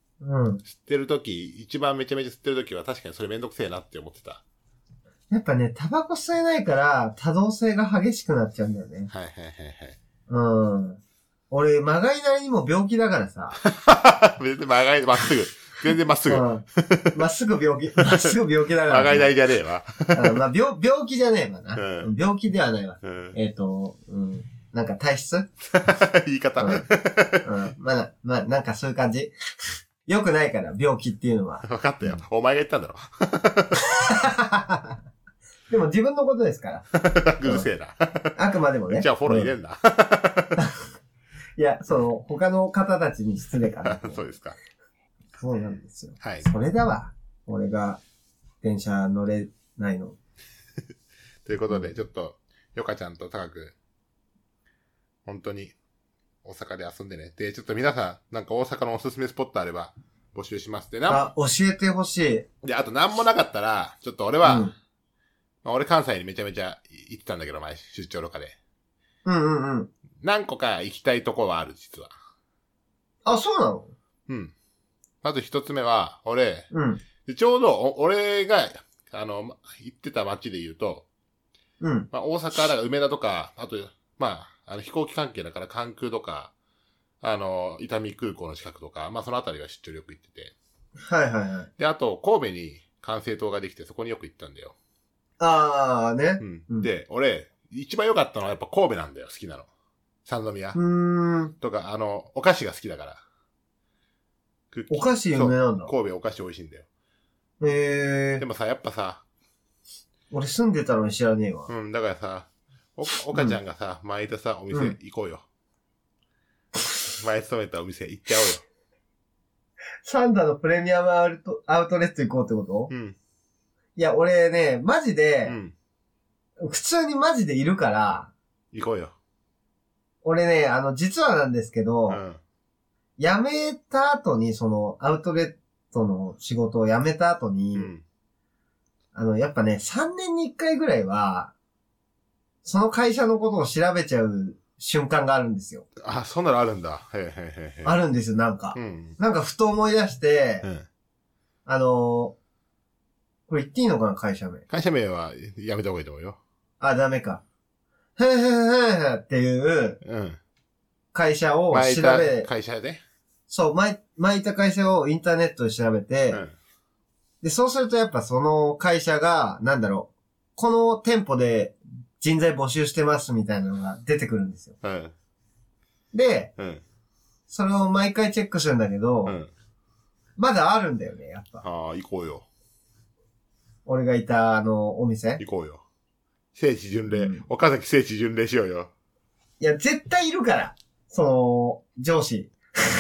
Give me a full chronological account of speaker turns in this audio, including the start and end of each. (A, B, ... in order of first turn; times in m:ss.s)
0:00.2-0:00.6 A
0:00.7-0:04.4 B
0:05.3-0:09.1 A
0:09.1-0:10.0 B
0:10.3-0:13.6 A
0:13.6-0:17.1 B
0:16.3-0:19.3 A
0:18.0-0:18.3 B
0:18.9-0:20.4 B
0:20.1-0:25.5 A
0:21.8-0:22.1 B
0:23.0-0:23.4 B
0:25.6-0:27.5 B
0:26.6-0:26.9 A
0:27.4-0:32.2 A
0:31.6-0:33.8 B
0:33.9-0:35.0 A
0:35.7-0:36.8 A
0:36.9-0:38.4 B
0:38.4-0:39.5 A
0:38.9-0:40.6 B
0:41.6-0:44.2 A
0:43.6-0:44.6 B
0:45.4-0:48.0 A
0:46.2-0:46.5 B
0:48.6-0:50.2 A
0:51.4-0:53.8 B
0:55.3-0:55.8 B
0:56.4-1:01.2 B
1:01.1-1:02.5 A
1:02.6-1:04.7 B
1:04.4-1:04.7 A
1:05.6-1:08.6 B
1:09.2-1:09.9 A
1:10.2-1:12.1 B
1:13.2-1:13.9 A
1:14.3-1:14.5 B
1:15.2-1:16.7 B
1:16.7-1:17.0 A
1:17.2-1:21.1 B
1:21.8-1:22.1 A
1:22.1-1:26.5 B
1:27.2-1:30.5 B
1:31.0-1:31.7 A
1:31.8-1:34.8 B
1:35.4-1:36.9 A
1:36.4-1:39.7 B
1:40.2-1:40.8 B
1:40.7-1:41.5 A
1:41.6-1:43.2 B
1:44.7-1:46.9 B
1:44.9-1:45.9 A
1:47.6-1:48.4 A
1:48.4-1:49.2 B
1:50.3-1:51.7 A
1:51.7-1:55.4 B
1:57.2-1:58.6 B
2:00.0-2:02.9 A
2:02.9-2:03.2 B
2:04.0-2:05.6 A
2:05.5-2:05.7 B
2:06.6-2:08.3 A
2:08.7-2:09.2 B
2:10.2-2:12.2 A
2:12.1-2:12.4 B
2:13.2-2:17.9 A
2:17.7-2:18.0 B
2:19.1-2:21.5 A
2:22.6-2:25.9 A
2:26.0-2:28.0 B
2:27.8-2:30.7 A
2:28.7-2:29.2 B
2:31.7-2:32.4 A
2:33.5-2:34.6 A
2:34.7-2:36.4 B
2:36.8-2:37.4 A
2:38.2-2:40.0 A
2:40.0-2:40.4 B
2:41.1-2:42.5 A
2:41.7-2:43.0 B
2:43.5-2:46.4 A
2:46.3-2:46.6 B
2:47.4-2:54.8 A
2:54.8-2:55.1 B
2:56.1-2:56.5 A
2:56.6-2:56.8 B
2:57.5-2:59.4 A
2:59.3-2:59.5 B
3:00.4-3:01.6 A
3:01.6-3:02.4 B
3:03.9-3:05.4 A
3:05.4-3:05.8 B
3:06.5-3:08.9 B
3:07.1-3:07.4 A
3:09.6-3:12.6 A